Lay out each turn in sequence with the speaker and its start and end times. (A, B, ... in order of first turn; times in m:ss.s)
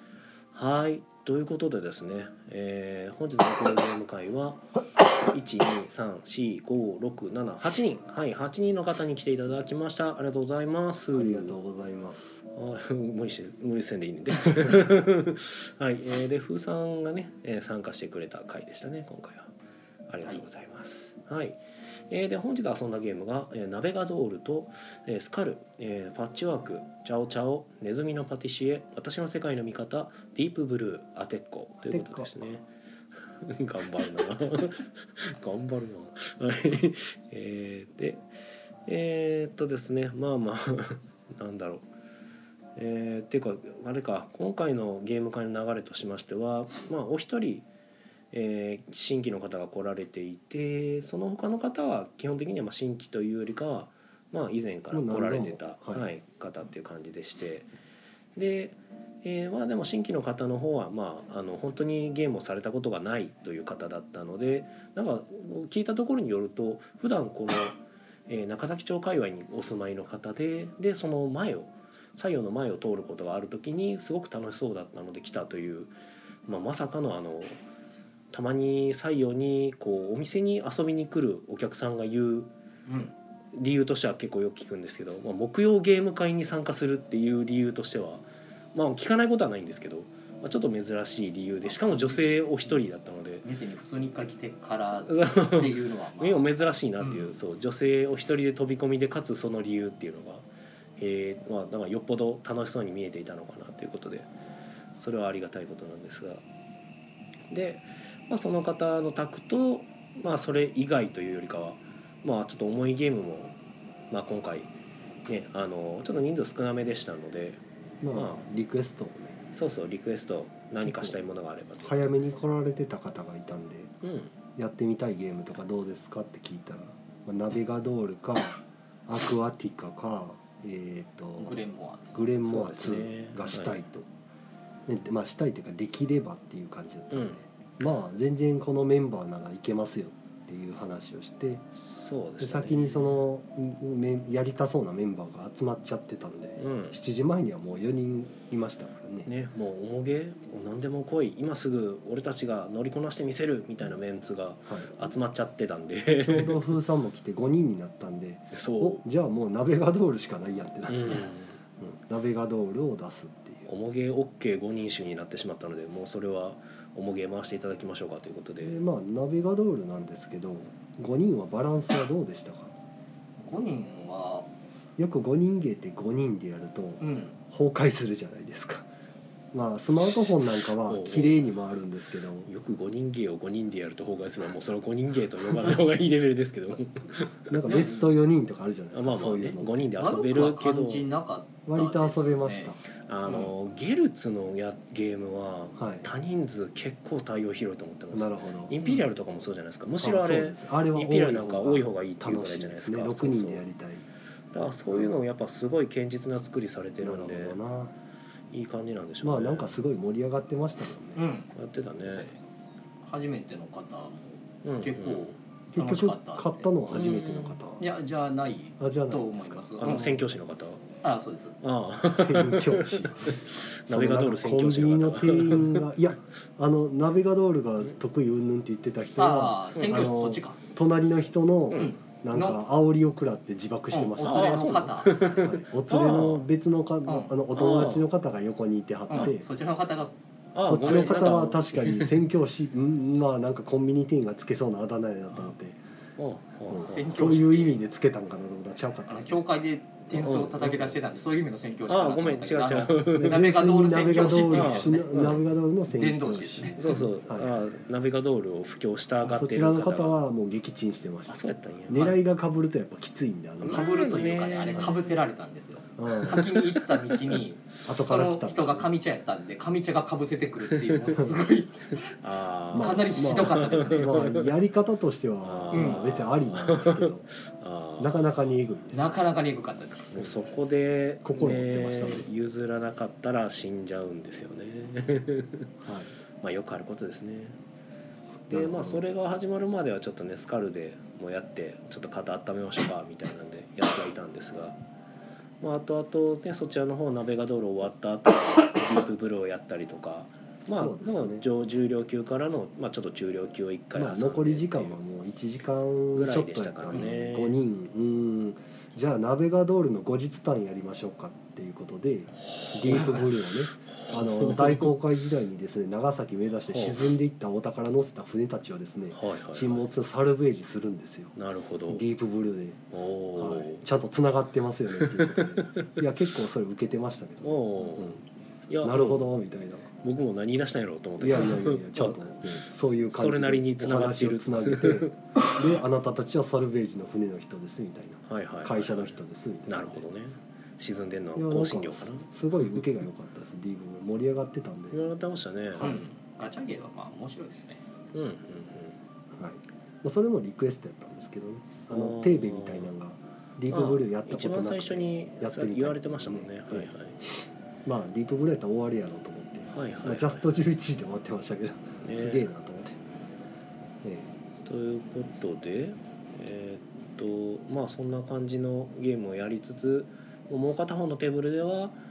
0:00.5-0:04.7 A
0:05.2-0:11.6 A
0:11.1-0:12.3 B
0:12.5-0:19.5 A
0:20.1-0:32.6 A
0:31.9-0:32.3 B
0:33.3-0:38.2 A
0:38.8-0:41.8 A
0:42.8-0:47.7 A
0:48.3-0:57.7 A
0:54.9-0:56.1 B
0:58.4-1:15.9 A
1:16.4-1:17.6 A
1:18.3-1:22.5 A
1:22.8-1:23.1 C
1:23.5-1:33.4 A
1:31.6-1:32.4 C
1:33.4-1:37.3 C
1:35.1-1:40.4 A
1:41.0-1:44.3 A
1:45.0-1:46.4 A
1:47.5-1:53.5 A
1:54.1-1:54.7 A
1:55.3-1:57.6 A
1:58.0-1:59.4 B
1:58.1-1:58.4 A
1:59.5-2:02.0 A
2:00.8-2:01.2 B
2:01.8-2:03.9 B
2:04.0-2:04.3 A
2:04.6-2:14.1 B
2:11.4-2:12.2 C
2:12.4-2:13.8 A
2:14.9-2:21.6 B
2:17.1-2:17.4 A
2:21.7-2:23.2 A
2:22.4-2:29.3 B
2:26.6-2:26.9 A
2:29.2-2:36.6 A
2:34.7-2:35.0 B
2:36.2-2:41.3 B
2:38.5-2:39.0 A
2:40.9-2:41.6 A
2:41.8-2:43.7 B
2:43.7-2:48.8 A
2:48.6-2:52.7 B
2:53.4-2:54.5 C
2:55.0-2:58.9 B
2:57.0-2:57.4 C
2:59.5-3:02.5 B
3:00.8-3:01.4 A
3:02.4-3:07.7 A
3:07.5-3:09.9 B
3:07.6-3:08.1 C
3:08.9-3:11.0 A
3:10.0-3:12.7 C
3:11.7-3:12.8 B
3:13.0-3:23.6 A
3:15.8-3:16.0 B
3:18.1-3:18.8 B
3:20.0-3:24.0 B
3:24.5-3:27.6 A
3:27.0-3:27.9 B
3:28.5-3:29.8 A
3:29.2-3:31.2 B
3:31.2-3:32.4 C
3:31.5-3:32.3 A
3:33.0-3:37.1 C
3:34.6-3:35.3 A
3:35.7-3:37.9 B
3:36.9-3:37.6 A
3:37.8-3:40.2 C
3:38.8-3:40.1 B
3:39.8-3:40.8 A
3:41.0-3:41.6 C
3:41.6-3:45.9 A
3:42.1-3:59.4 B
3:49.2-3:50.6 C
3:51.7-3:52.6 C
3:53.9-3:55.4 C
3:54.2-3:56.4 A
3:57.0-3:57.9 C
3:57.5-3:58.0 A
3:59.1-4:00.1 C
4:00.5-4:02.2 A
4:00.6-4:05.8 B
4:00.7-4:01.5 C
4:06.2-4:07.1 A
4:06.7-4:09.4 B
4:06.8-4:07.8 C
4:09.1-4:17.0 C
4:10.2-4:10.9 A
4:11.9-4:13.4 A
4:13.1-4:17.6 B
4:14.3-4:15.4 A
4:16.8-4:20.2 A
4:19.2-4:24.1 B
4:21.3-4:22.0 A
4:21.9-4:22.2 C
4:23.6-4:25.0 A
4:23.6-4:32.1 C
4:26.0-4:26.6 B
4:27.8-4:28.9 B
4:30.7-4:31.2 A
4:32.2-4:34.5 A
4:32.7-4:34.3 C
4:32.7-4:37.2 B
4:35.4-4:38.2 A
4:35.7-4:36.0 C
4:38.0-4:39.2 B
4:38.9-4:40.4 C
4:40.1-4:45.7 A
4:41.2-4:42.3 B
4:45.8-4:46.1 B
4:46.4-4:47.6 A
4:48.5-4:49.0 B
4:48.5-4:54.8 A
4:55.6-5:05.0 A
5:00.7-5:01.4 B
5:03.9-5:21.4 B
5:06.1-5:07.6 A
5:12.4-5:14.9 A
5:16.7-5:17.0 A
5:19.1-5:19.9 A
5:21.4-5:22.0 A
5:21.9-5:22.8 B
5:22.9-5:23.8 A
5:23.4-5:28.2 B
5:25.0-5:26.0 A
5:27.4-5:28.1 A
5:28.7-5:29.3 A
5:28.8-5:29.9 B
5:30.0-5:35.2 A
5:31.2-5:40.0 B
5:38.2-5:42.9 A
5:41.4-5:45.0 B
5:44.9-5:46.0 A
5:45.7-5:46.0 B
5:45.8-5:47.8 C
5:48.1-5:49.0 A
5:49.3-5:56.9 B
5:51.9-5:52.9 A
5:53.7-5:57.2 A
5:57.8-6:03.0 B
5:59.7-6:00.4 A
6:02.0-6:02.5 A
6:04.0-6:04.3 B
6:04.6-6:12.0 A